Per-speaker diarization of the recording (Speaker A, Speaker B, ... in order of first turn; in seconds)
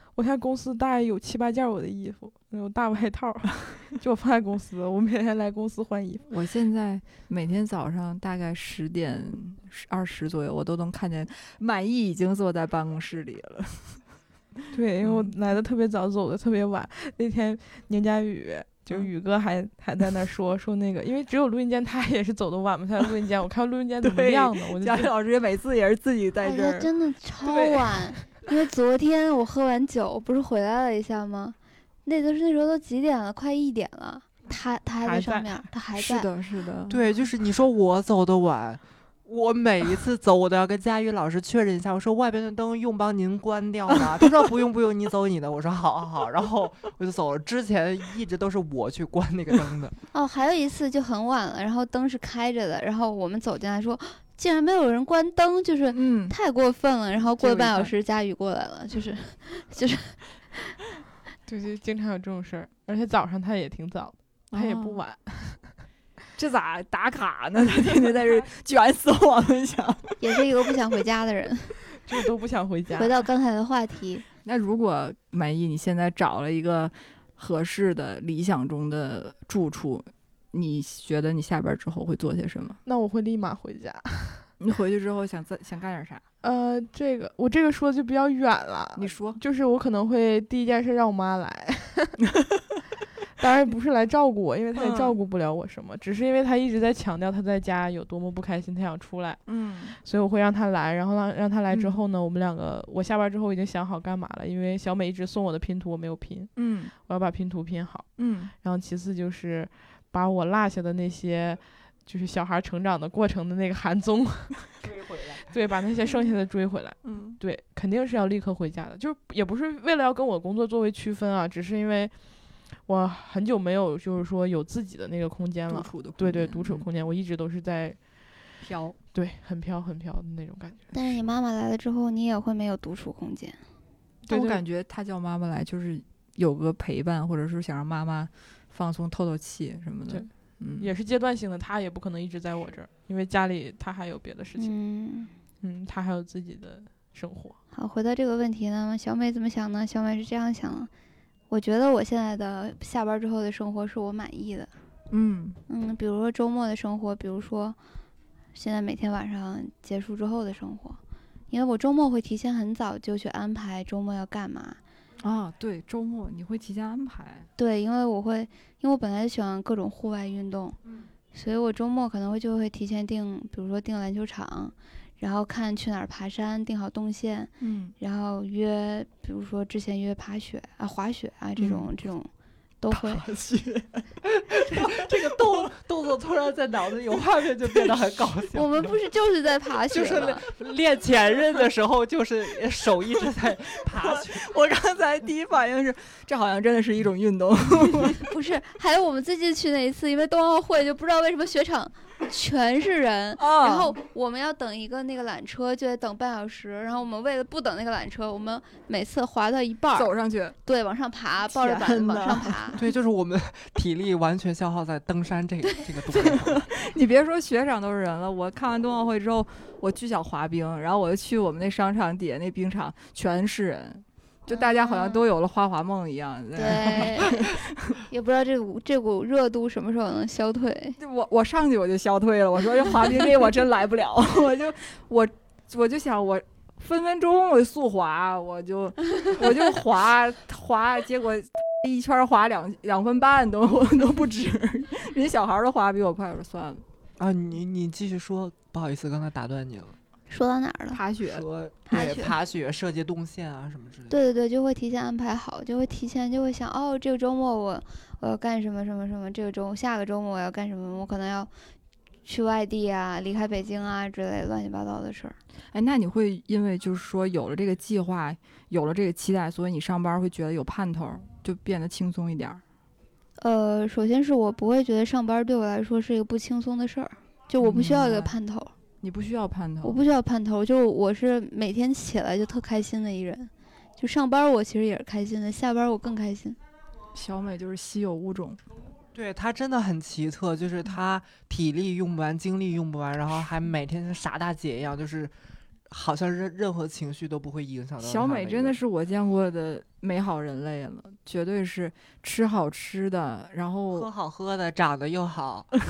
Speaker A: 0.1-6.3, 14.7-25.1, 35.0-35.7, 61.5-65.7, 72.0-73.2, 82.8-84.5, 86.4-92.2, 93.4-114.7, 115.4-122.2, 122.8-128.1, 129.1-131.2, 134.3-134.6, 140.1-144.8, 145.6-147.6
Speaker B: 6.3-14.0, 24.0-26.9, 27.5-27.9, 36.0-37.0, 55.9-56.4, 57.4-57.9, 64.5-65.0, 66.4-70.4, 74.4-82.8, 84.6-86.2, 89.0-89.4, 94.8-95.2, 99.5-100.0, 101.7-102.0, 106.6-106.9, 108.2-108.5, 117.0-117.4, 125.7-126.9, 128.6-129.0, 134.3-140.9, 155.1-155.6, 165.2-167.5, 177.6-177.9, 181.6-181.9, 182.9-184.1, 184.7-185.1, 194.0-198.2, 203.4-204.0, 209.9-210.6, 211.5-212.8, 216.1-228.0, 231.0-246.8, 250.9-251.4, 265.7-272.6, 277.6-278.4, 279.0-280.0, 287.1-288.6, 298.0-304.1
Speaker C: 26.4-36.3, 50.1-60.7, 70.2-71.8, 73.0-74.3, 130.9-133.6, 144.6-145.3, 147.7-150.9, 151.5-154.7, 155.7-157.8, 158.6-161.0, 161.5-164.8, 167.6-170.8, 171.3-182.3, 182.8-183.2, 188.5-190.4, 198.2-210.1, 210.7-212.8, 224.5-225.2, 226.6-231.0, 250.3-251.0, 251.9-252.3, 254.1-261.5, 262.3-265.4, 273.4-278.7, 279.8-286.6
Speaker D: 36.9-50.0, 114.8-115.5, 184.2-189.0, 189.9-194.5, 212.8-216.7, 247.2-250.0, 251.2-254.2, 289.1-295.3, 295.9-298.8, 303.9-305.7